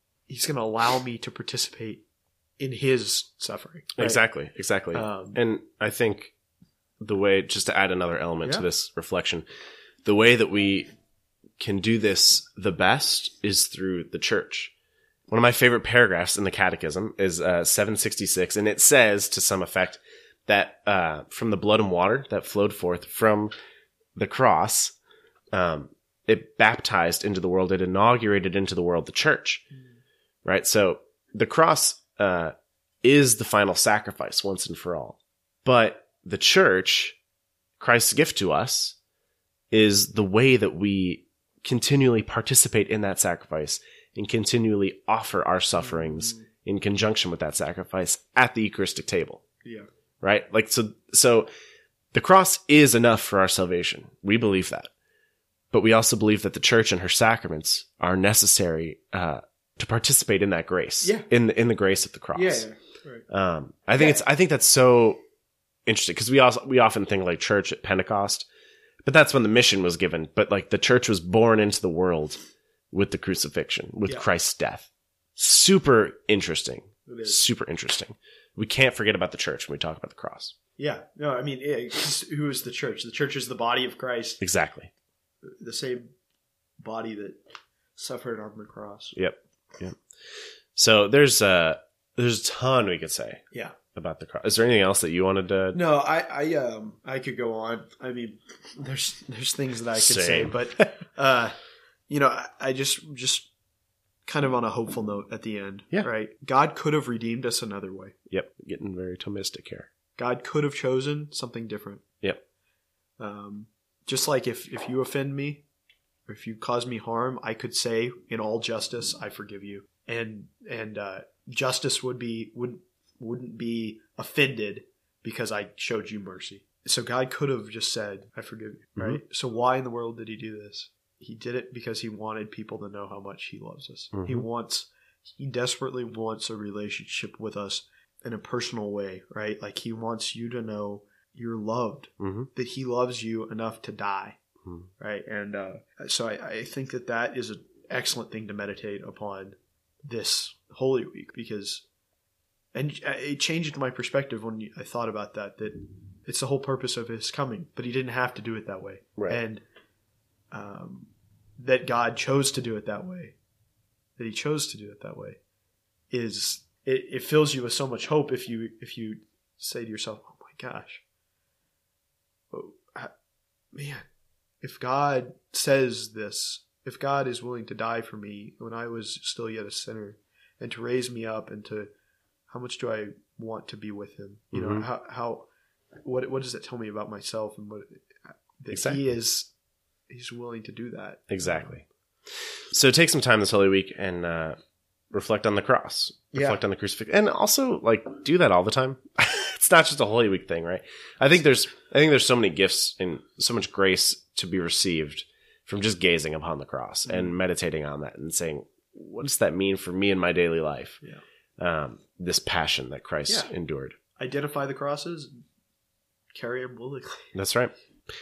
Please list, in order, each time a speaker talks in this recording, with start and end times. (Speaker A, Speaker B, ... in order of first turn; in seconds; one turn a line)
Speaker A: 0.3-2.0
Speaker A: 2.6-4.2
Speaker B: 4.0-6.3
Speaker A: 4.9-5.4
Speaker B: 7.0-9.4
Speaker B: 10.0-10.9
Speaker B: 11.6-14.7
Speaker B: 15.3-23.5
Speaker B: 24.1-24.9
Speaker B: 25.5-29.6
Speaker B: 30.4-37.2
Speaker B: 37.8-39.0
Speaker B: 39.7-49.4
Speaker A: 45.9-46.4
Speaker B: 50.2-51.5
Speaker B: 52.1-54.9
Speaker B: 55.7-62.6
Speaker A: 62.3-63.2
Speaker B: 63.3-65.2
Speaker B: 65.8-68.5
Speaker B: 69.0-72.4
Speaker B: 72.9-80.5
Speaker A: 77.1-77.4
Speaker A: 80.8-84.4
Speaker B: 84.4-84.9
Speaker A: 85.4-86.0
Speaker A: 86.8-87.4
Speaker A: 88.0-89.2
Speaker B: 89.1-90.0
Speaker B: 90.7-93.4
Speaker B: 93.9-95.8
Speaker A: 95.7-101.6
Speaker B: 100.0-100.6
Speaker A: 102.1-103.5
Speaker A: 104.2-108.1
Speaker B: 108.3-109.9
Speaker A: 110.2-112.0
Speaker A: 113.2-115.6
Speaker A: 116.3-144.4
Speaker B: 134.1-134.4
Speaker B: 142.2-142.5
Speaker B: 144.6-144.9
Speaker A: 145.0-151.8
Speaker A: 152.7-159.6
Speaker A: 160.5-163.3
Speaker A: 164.2-165.4
Speaker A: 166.1-171.0
Speaker A: 172.5-173.1
Speaker A: 173.7-174.0
Speaker A: 174.6-181.9
Speaker A: 182.5-185.5
Speaker B: 184.5-184.9
Speaker A: 186.0-189.5
Speaker B: 188.7-189.0
Speaker A: 190.1-191.7
Speaker B: 191.3-191.8
Speaker B: 192.7-194.6
Speaker B: 195.1-211.0
Speaker A: 196.3-196.6
Speaker A: 207.1-207.3
Speaker B: 211.6-214.0
Speaker A: 214.2-215.3
Speaker A: 216.3-217.3
Speaker B: 217.3-217.7